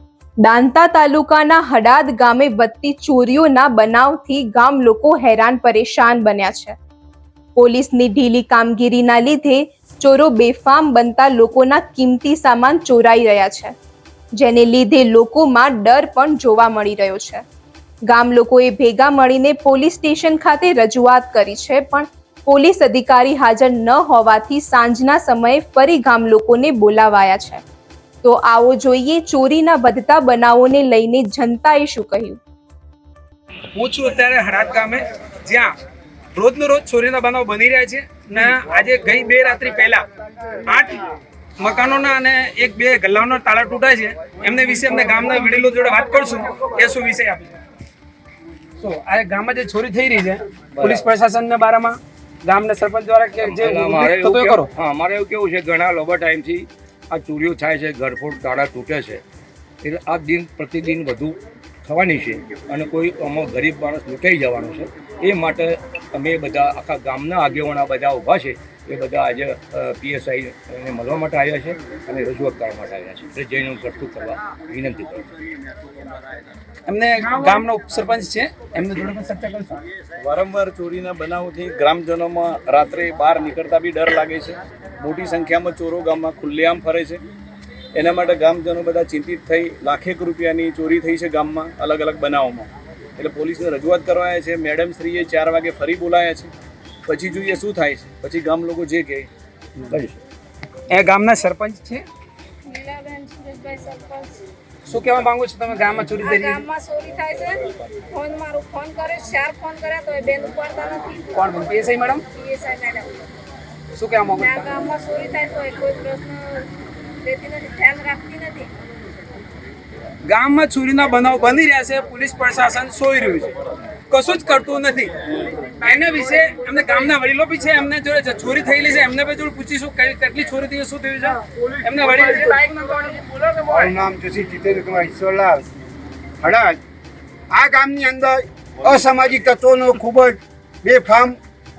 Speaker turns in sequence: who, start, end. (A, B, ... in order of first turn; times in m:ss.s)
0:00.4-0:06.8 A
0:07.6-0:13.7 A
0:14.4-0:17.4 A
0:18.1-0:27.6 A
0:28.2-0:32.4 A
0:33.7-0:35.7 B
0:36.3-0:40.0 B
0:40.6-0:41.0 B
0:41.6-0:47.5 B
0:48.8-0:54.6 B
0:50.8-0:51.1 C
0:53.4-0:59.2 C
0:59.8-1:15.3 C
1:16.9-1:19.8 B
1:20.2-1:27.2 D
1:27.9-1:36.5 D
1:37.1-1:39.3 D
1:39.9-1:40.1 C
1:40.9-1:42.0 B
1:42.6-1:44.4 E
1:44.9-1:46.6 B
1:46.2-1:51.4 E
1:51.3-1:52.2 B
1:52.3-1:53.2 E
1:53.9-1:54.7 B
1:54.3-1:56.7 E
1:57.2-1:58.7 E
2:00.3-2:03.5 B
2:04.1-2:05.1 B
2:05.8-2:13.2 B
2:13.6-2:15.6 F
2:16.4-2:16.8 F
2:17.5-2:21.4 F